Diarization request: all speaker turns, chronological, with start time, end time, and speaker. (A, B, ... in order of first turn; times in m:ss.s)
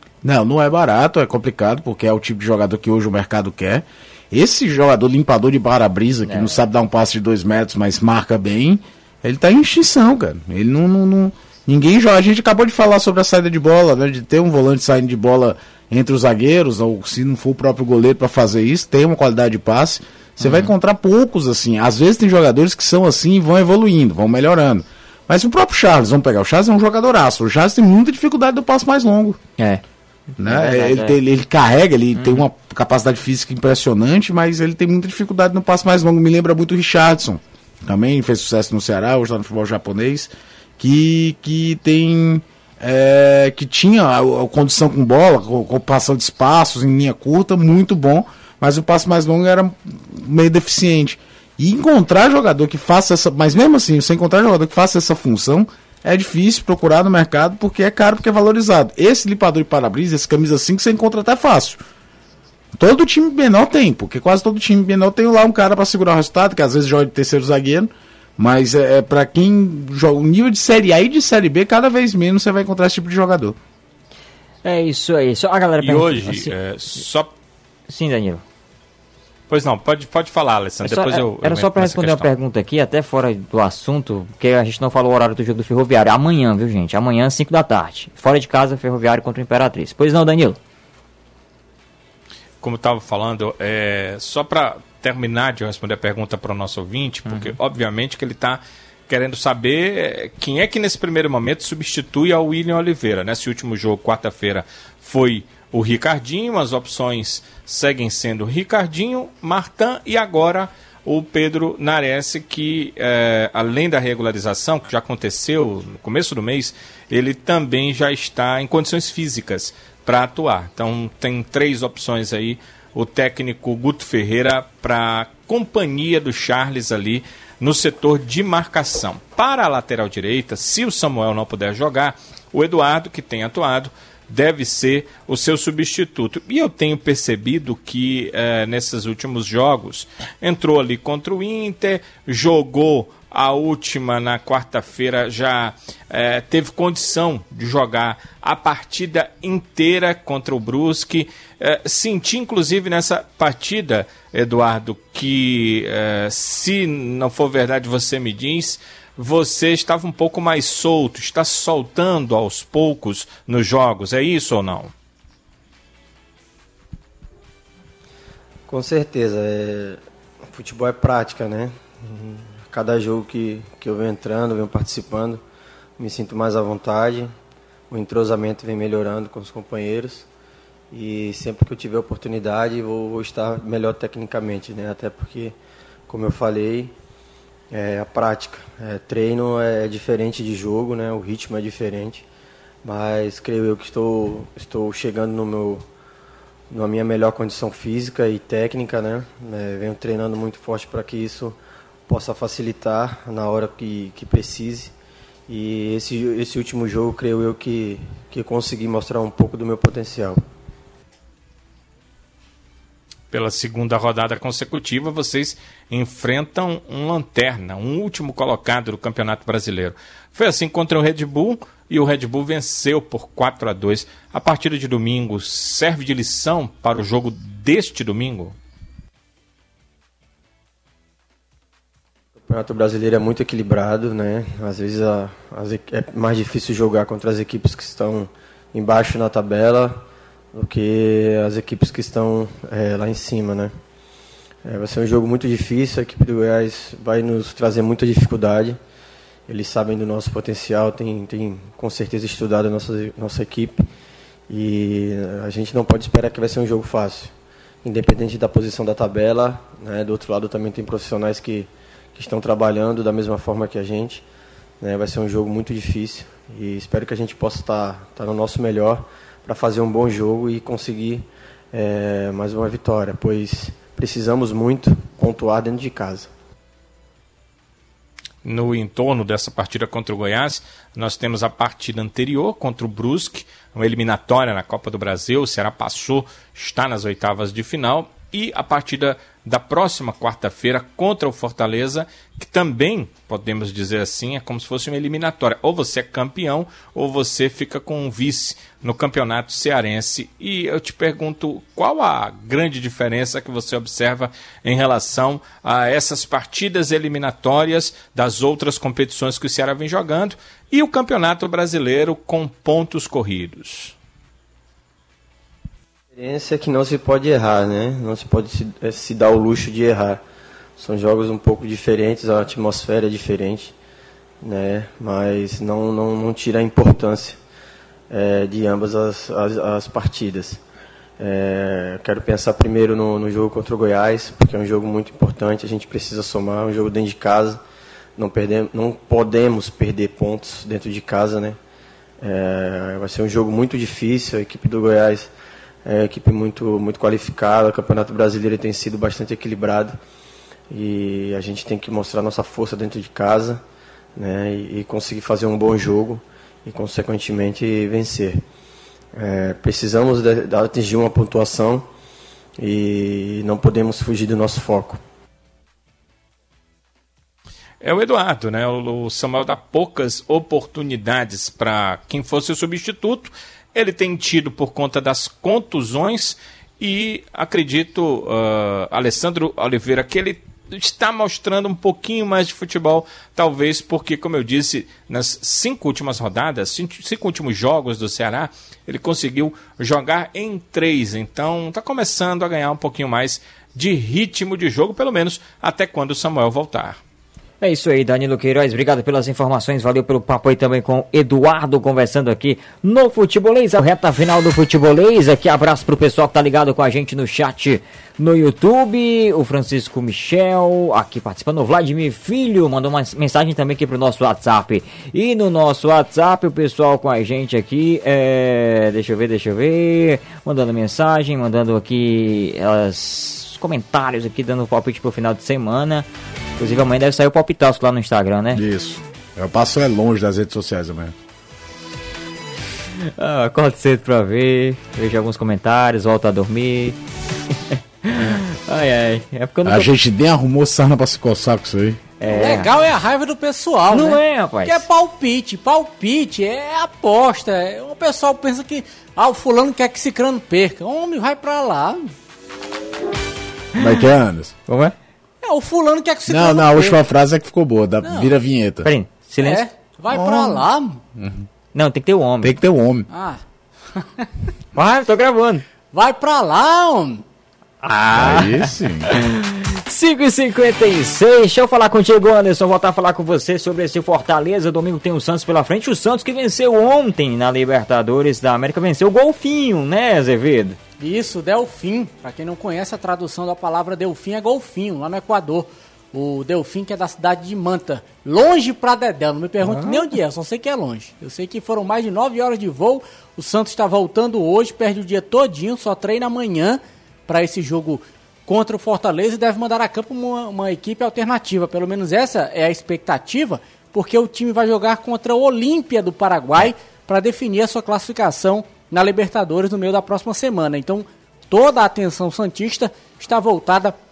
0:00.2-0:29.4 A
0:06.2-0:06.6 B
0:20.4-0:20.7 B
0:29.6-0:29.8 B
0:30.4-0:31.2 B
0:30.4-1:01.8 A
0:32.1-0:32.4 B
1:02.8-1:13.6 A
1:14.6-1:17.0 B
1:15.8-1:17.3 C
1:17.9-1:18.4 B
1:19.5-1:22.3 C
1:20.8-1:30.6 B
1:32.6-2:44.9 C
1:37.3-1:37.6 B
2:48.7-2:55.4 D
2:56.0-2:57.3 D
2:57.9-3:00.3 D
3:00.9-3:05.6 D
3:06.1-3:06.9 D
3:07.7-3:12.2 D
3:12.8-3:15.9 D
3:16.7-3:24.9 D
3:25.5-3:30.4 D
3:33.3-3:48.6 C
3:52.4-4:00.0 D
4:00.5-4:03.7 D
4:04.6-4:08.8 D
4:09.5-4:13.9 D
4:14.5-4:17.3 D
4:17.8-4:24.2 D
4:24.8-4:36.3 D
4:38.4-5:14.0 C
5:16.1-5:20.2 D
5:20.8-5:23.7 D
5:24.4-5:27.4 D
5:28.1-5:30.6 D
5:31.2-5:37.6 D
5:38.2-5:41.6 D
5:42.2-5:45.3 D
5:45.8-5:50.0 D
5:50.7-5:53.6 D
5:54.2-5:58.4 D
5:59.1-6:01.8 D
6:02.6-6:05.0 D
6:07.8-6:37.0 C
6:37.6-7:06.1 B
7:06.6-7:08.6 B
7:08.5-7:11.1 A
7:13.0-7:17.0 B
7:17.7-7:19.9 B
7:19.6-7:22.0 A
7:22.2-7:22.7 B
7:22.2-7:32.1 E
7:23.9-7:24.8 B
7:33.7-7:34.6 A
7:34.7-7:35.0 B
7:35.4-7:37.0 E
7:36.3-7:38.9 A
7:38.0-7:38.3 E
7:38.8-7:39.6 B
7:39.4-7:41.0 E
7:40.1-7:41.5 A
7:41.7-7:42.5 B
7:42.4-7:43.1 A
7:43.1-7:43.4 E
7:44.0-7:44.3 E
7:44.7-7:45.6 B
7:45.9-7:47.2 E
7:47.8-8:00.8 B
7:48.1-7:49.2 A
8:01.0-8:34.0 E